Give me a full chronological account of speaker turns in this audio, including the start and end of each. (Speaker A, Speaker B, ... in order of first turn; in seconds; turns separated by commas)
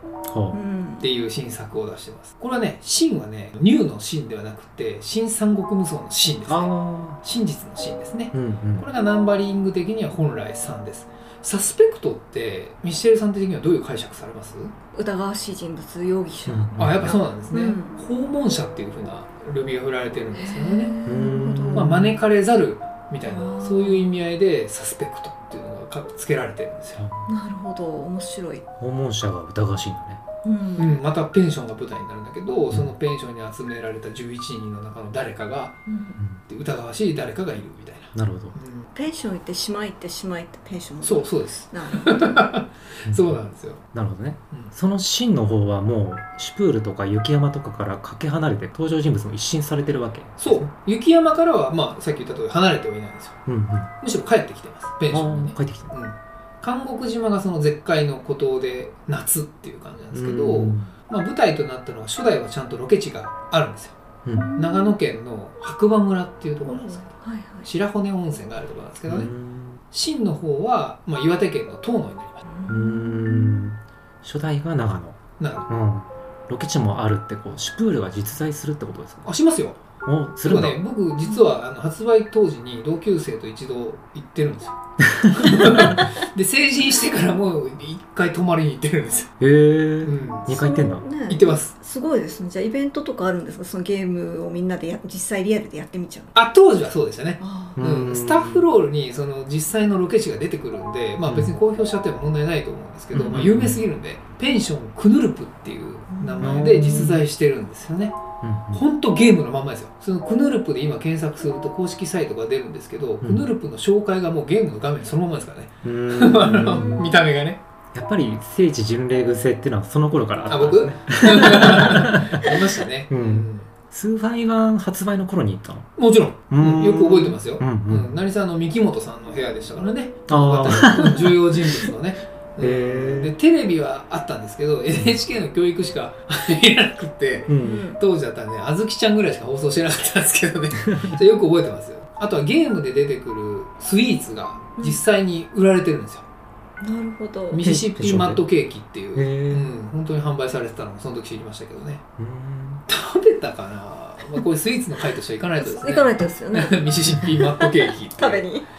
Speaker A: 0.3-0.6, Speaker B: 0.5-1.1, Speaker C: 1.0-14.7, Speaker A: 6.5-7.2, Speaker A: 8.3-8.9, Speaker B: 14.9-17.9, Speaker A: 16.5-17.1, Speaker C: 16.8-20.9, Speaker B: 20.4-22.2, Speaker A: 21.0-22.1, Speaker C: 21.7-27.1, Speaker B: 23.2-24.2, Speaker A: 27.0-27.3, Speaker B: 27.3-28.6, Speaker A: 28.8-30.2, Speaker B: 30.4-31.0, Speaker C: 30.8-35.8, Speaker B: 35.9-36.2, Speaker C: 36.5-38.9, Speaker A: 38.1-38.5, Speaker B: 38.9-42.4, Speaker C: 41.0-43.8, Speaker A: 43.0-43.4, Speaker A: 43.9-50.7, Speaker C: 50.4-53.4, Speaker A: 53.5-53.9, Speaker C: 54.0-64.0, Speaker A: 55.1-55.9, Speaker A: 60.1-60.9, Speaker A: 64.2-64.5, Speaker B: 64.3-65.0, Speaker C: 64.6-67.1, Speaker B: 66.6-67.7, Speaker C: 67.6-69.3, Speaker A: 69.0-69.8, Speaker C: 69.9-72.4, Speaker B: 72.5-73.7, Speaker A: 72.7-79.3, Speaker C: 75.4-75.7, Speaker C: 79.2-79.8, Speaker A: 80.0-80.8, Speaker C: 80.4-89.3, Speaker A: 85.1-86.0, Speaker A: 89.4-91.0, Speaker C: 90.0-90.5, Speaker B: 90.5-96.3, Speaker C: 91.3-91.7, Speaker C: 96.3-108.2, Speaker B: 97.4-97.8, Speaker A: 97.8-98.7, Speaker A: 101.2-101.5, Speaker A: 103.1-103.8, Speaker B: 106.1-107.1, Speaker A: 106.4-107.2, Speaker A: 108.4-108.8, Speaker C: 108.7-117.6, Speaker A: 115.8-117.1, Speaker B: 116.7-117.1, Speaker A: 117.9-122.4, Speaker C: 120.5-123.7, Speaker A: 123.1-126.0, Speaker C: 126.0-146.2, Speaker A: 126.5-128.1, Speaker A: 130.3-131.6, Speaker A: 132.6-133.3, Speaker A: 137.5-137.9, Speaker B: 137.6-138.0, Speaker A: 140.9-141.2, Speaker B: 146.8-147.7, Speaker C: 147.5-152.0, Speaker A: 147.6-148.4, Speaker A: 149.1-149.7, Speaker A: 152.2-152.8, Speaker C: 152.9-158.4, Speaker B: 155.6-158.7